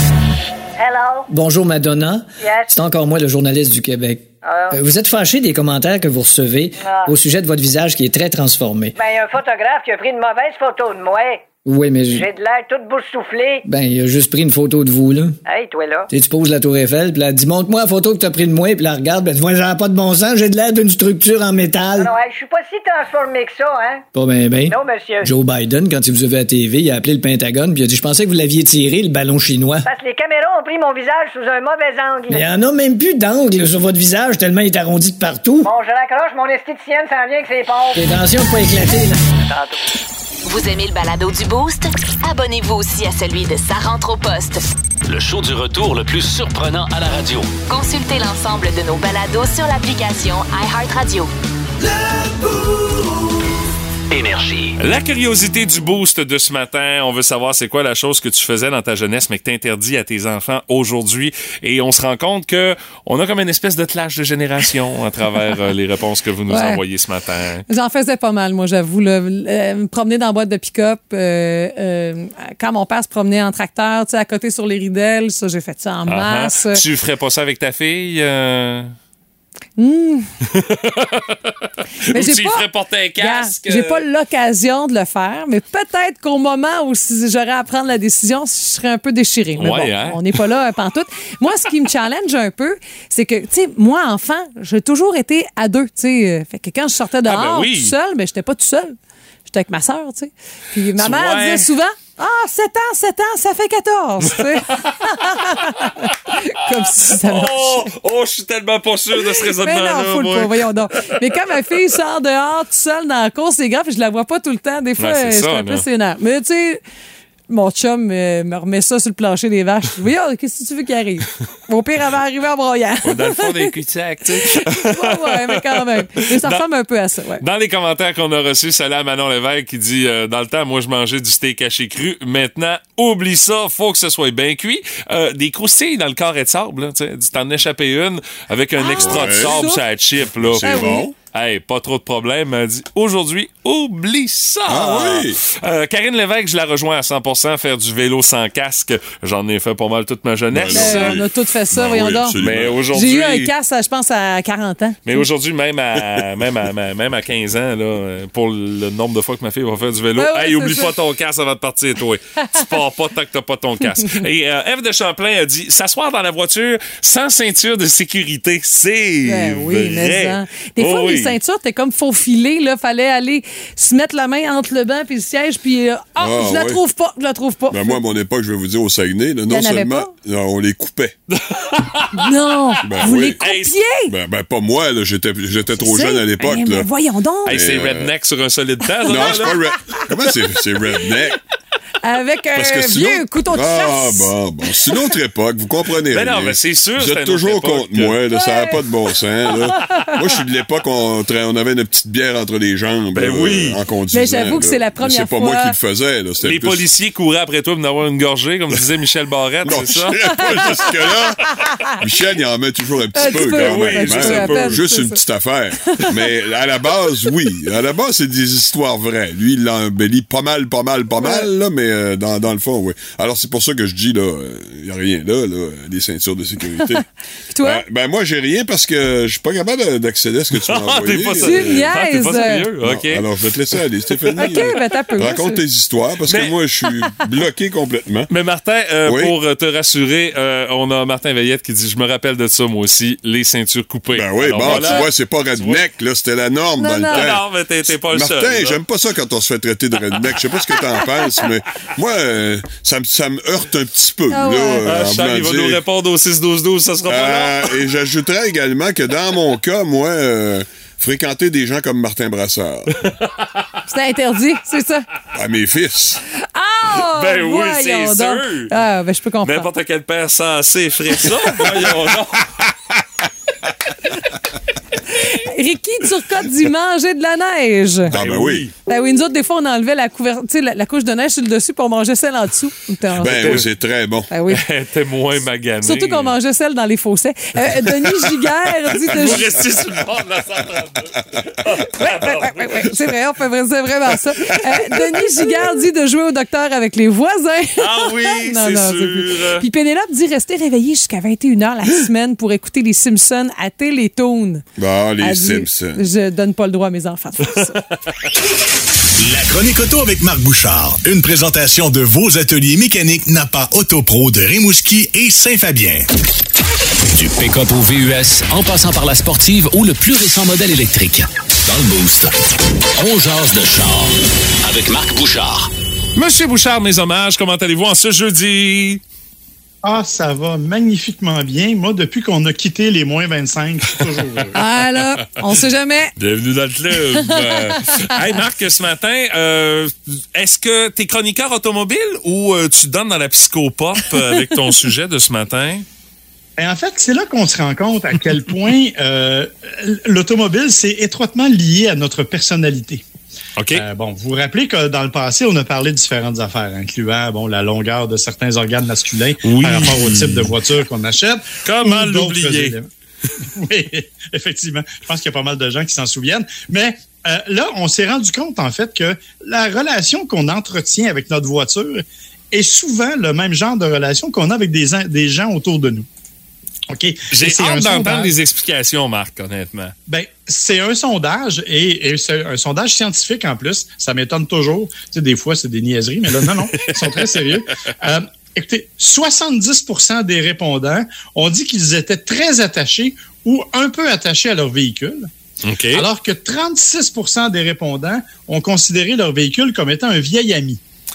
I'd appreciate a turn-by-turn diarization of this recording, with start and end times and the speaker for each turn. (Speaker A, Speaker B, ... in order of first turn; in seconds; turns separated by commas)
Speaker A: 0.8-1.3, Speaker B: 1.3-8.9, Speaker A: 2.4-2.7, Speaker A: 4.4-4.7, Speaker A: 6.8-7.1, Speaker A: 8.9-11.5, Speaker B: 11.6-12.3, Speaker A: 12.1-13.6, Speaker B: 13.6-15.4, Speaker A: 15.4-16.1, Speaker B: 16.1-22.1, Speaker A: 21.9-24.0, Speaker B: 24.1-29.9, Speaker A: 24.6-25.3, Speaker A: 29.8-32.4, Speaker B: 32.3-35.7, Speaker A: 35.6-38.2, Speaker B: 37.9-39.2, Speaker A: 39.5-39.8, Speaker C: 40.5-44.7, Speaker D: 45.0-47.6, Speaker C: 47.7-51.3, Speaker D: 54.1-54.7, Speaker E: 54.8-67.7, Speaker F: 66.5-66.8, Speaker F: 67.7-76.8, Speaker E: 76.1-78.9, Speaker F: 79.8-80.3, Speaker E: 80.5-84.0, Speaker F: 82.1-82.7, Speaker F: 83.2-107.9, Speaker E: 89.6-90.3, Speaker E: 97.2-97.9, Speaker E: 101.0-101.7, Speaker E: 104.4-106.3, Speaker E: 106.9-111.3, Speaker F: 109.2-116.8, Speaker E: 115.0-115.8, Speaker F: 117.5-123.7, Speaker E: 123.0-126.6, Speaker F: 124.4-127.4, Speaker E: 127.4-151.2, Speaker F: 138.8-139.8, Speaker G: 139.0-139.7, Speaker G: 140.3-141.1, Speaker F: 140.6-141.1, Speaker G: 144.7-145.4, Speaker G: 150.5-152.9, Speaker F: 150.7-152.4, Speaker E: 152.4-153.5, Speaker F: 152.9-155.2, Speaker E: 155.1-171.4, Speaker F: 160.2-160.9, Speaker F: 169.2-178.0, Speaker G: 176.2-176.8, Speaker G: 177.7-181.1, Speaker F: 179.5-180.1, Speaker E: 181.3-182.3, Speaker F: 182.1-184.1, Speaker G: 182.8-183.4, Speaker E: 183.4-183.7, Speaker G: 184.1-186.9, Speaker F: 185.8-187.6, Speaker E: 187.4-189.6, Speaker G: 187.5-188.1, Speaker F: 189.0-190.0, Speaker G: 189.1-191.4, Speaker F: 192.0-194.3, Speaker G: 192.5-206.8, Speaker E: 196.1-198.2, Speaker F: 198.3-198.9, Speaker F: 199.5-200.2, Speaker E: 203.1-203.8, Speaker F: 204.1-205.7, Speaker E: 206.4-210.8, Speaker G: 209.6-227.1, Speaker F: 210.2-211.9, Speaker F: 213.1-215.2, Speaker E: 213.2-214.8, Speaker F: 215.9-216.1, Speaker F: 221.2-221.5, Speaker F: 226.7-227.8, Speaker G: 227.6-231.9, Speaker E: 230.5-233.2, Speaker F: 231.4-232.7, Speaker G: 232.8-238.3, Speaker E: 234.1-234.7, Speaker F: 234.3-235.6, Speaker E: 236.3-236.5, Speaker E: 238.3-245.8, Speaker G: 239.0-239.3, Speaker G: 244.1-255.8, Speaker F: 244.6-245.1, Speaker F: 246.8-247.3, Speaker E: 247.1-248.8, Speaker F: 254.3-254.9, Speaker E: 254.8-257.8, Speaker G: 257.0-262.9, Speaker E: 263.0-263.7, Speaker F: 263.9-265.1, Speaker G: 265.3-266.2, Speaker F: 266.4-269.7, Speaker E: 266.9-268.7, Speaker E: 269.4-272.5, Speaker F: 275.1-278.1, Speaker G: 278.1-278.7, Speaker E: 278.1-278.7, Speaker F: 278.9-283.6, Speaker G: 283.1-284.3, Speaker E: 283.3-283.7, Speaker F: 284.3-284.6, Speaker E: 284.5-286.3, Speaker F: 285.8-289.6, Speaker E: 289.1-293.0, Speaker F: 291.8-304.6, Speaker E: 294.4-295.0, Speaker E: 297.8-299.6, Speaker G: 304.8-306.1, Speaker F: 305.2-307.8, Speaker H: 309.2-316.1, Speaker D: 317.1-322.4, Speaker D: 323.0-325.7, Speaker E: 326.1-329.0, Speaker I: 329.8-334.6, Speaker F: 334.5-336.1, Speaker E: 336.2-345.8, Speaker F: 337.1-338.1, Speaker I: 346.6-353.0, Speaker E: 353.6-353.8, Speaker I: 353.7-362.9, Speaker E: 359.4-360.6, Speaker E: 361.6-362.8, Speaker I: 363.4-376.1, Speaker I: 376.9-378.4, Speaker E: 377.3-379.9, Speaker I: 380.1-395.3, Speaker E: 386.7-387.5, Speaker E: 395.6-396.1, Speaker I: 395.9-400.8